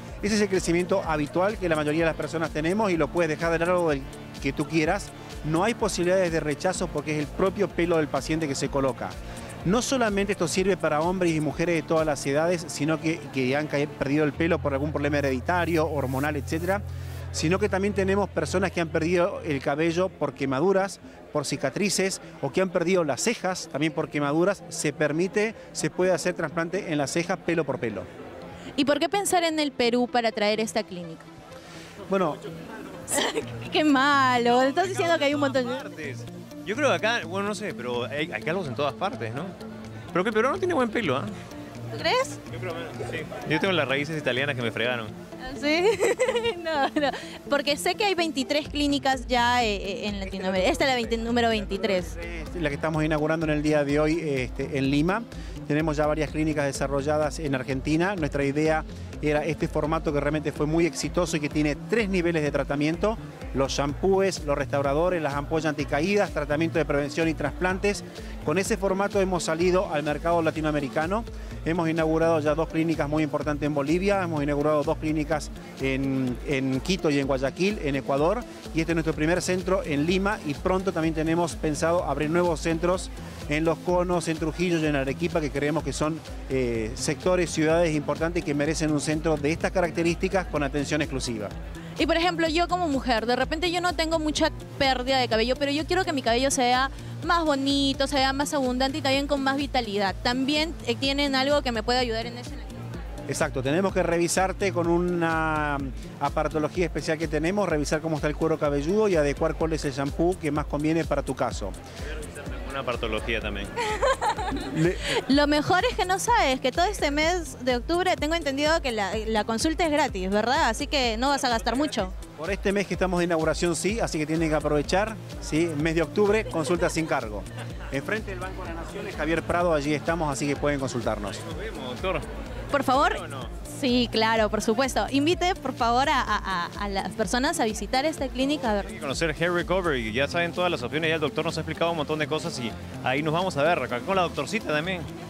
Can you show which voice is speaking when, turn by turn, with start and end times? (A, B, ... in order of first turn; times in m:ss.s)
0:00.2-0:28.0 A
0:28.8-0:31.2 B
0:32.1-0:32.4 A
0:33.1-0:35.8 B
0:34.4-0:39.6 C
0:40.1-0:41.4 C
0:41.9-0:42.4 B
0:42.7-0:45.1 C
0:45.4-0:52.1 B
0:51.9-1:31.5 A
1:32.0-1:42.8 B
1:43.3-1:51.7 A
1:52.2-1:53.7 C
1:53.8-2:02.1 B
1:54.5-1:55.2 A
2:02.4-2:11.4 A
2:11.4-2:12.2 C
2:12.7-2:18.9 B
2:12.9-2:13.5 C
2:18.8-2:25.1 C